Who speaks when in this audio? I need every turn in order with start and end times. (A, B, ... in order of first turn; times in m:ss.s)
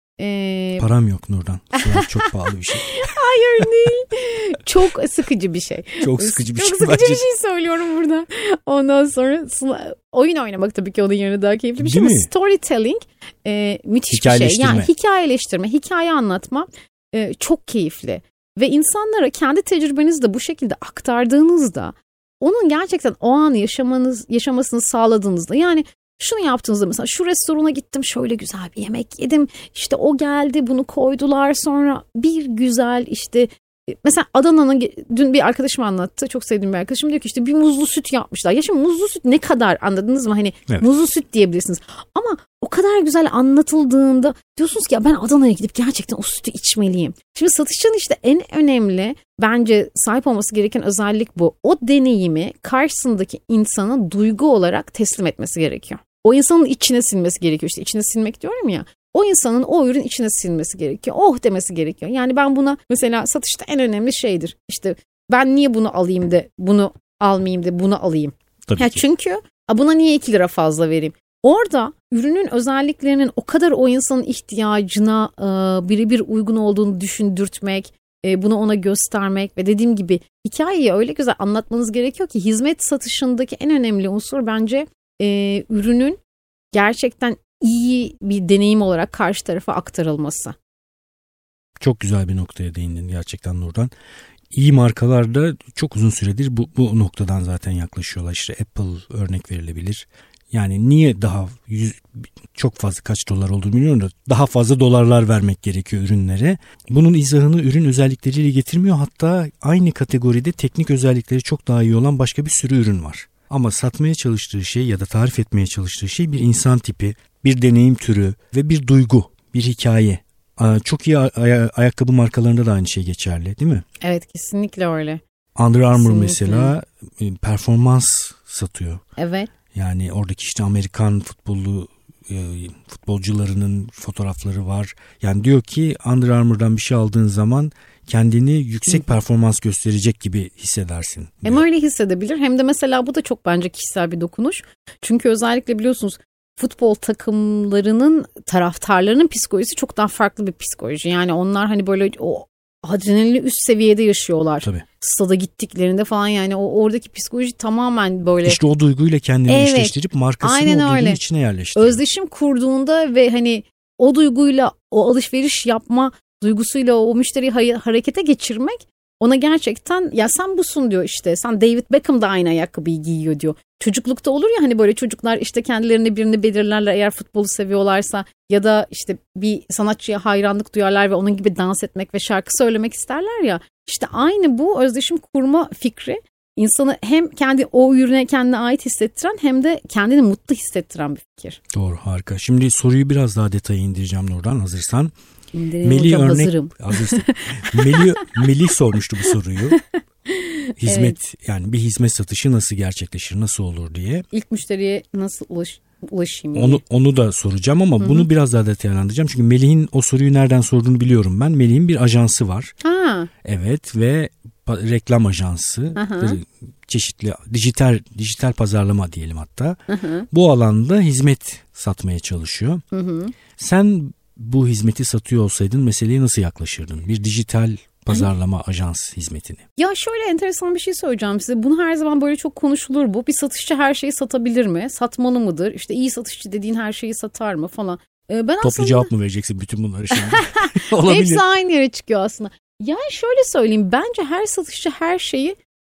0:00.2-0:00.9 A
0:00.8-0:03.0 B
0:01.8-0:02.2 A
0:02.8-1:26.2 A
0:06.0-0:07.2 B
0:11.8-0:12.3 B
0:14.1-0:14.9 B
1:08.7-1:09.0 B
1:26.7-1:30.6 A
1:31.8-1:33.9 B
1:34.5-2:03.8 B
2:04.0-2:05.2 A
2:05.6-2:09.0 B
2:05.9-2:06.7 A
2:09.2-2:09.5 A
2:09.7-2:21.6 B
2:21.4-2:38.6 A
2:38.4-2:42.0 B
2:39.5-2:41.2 A
2:41.8-3:11.6 A
3:11.7-3:15.1 B
3:15.5-3:18.4 A
3:15.8-3:19.8 B
3:20.3-3:21.2 A
3:20.8-3:24.3 B
3:24.3-3:26.8 A
3:26.5-3:32.7 B
3:28.0-3:28.3 A
3:32.8-3:33.3 A
3:33.4-3:39.8 B
3:36.0-3:36.4 A
3:39.9-3:40.3 A
3:40.3-3:42.8 B
3:42.9-3:43.4 A
3:43.6-3:49.6 B
3:49.8-3:59.1 A
3:58.6-4:01.4 B
4:00.2-4:05.6 A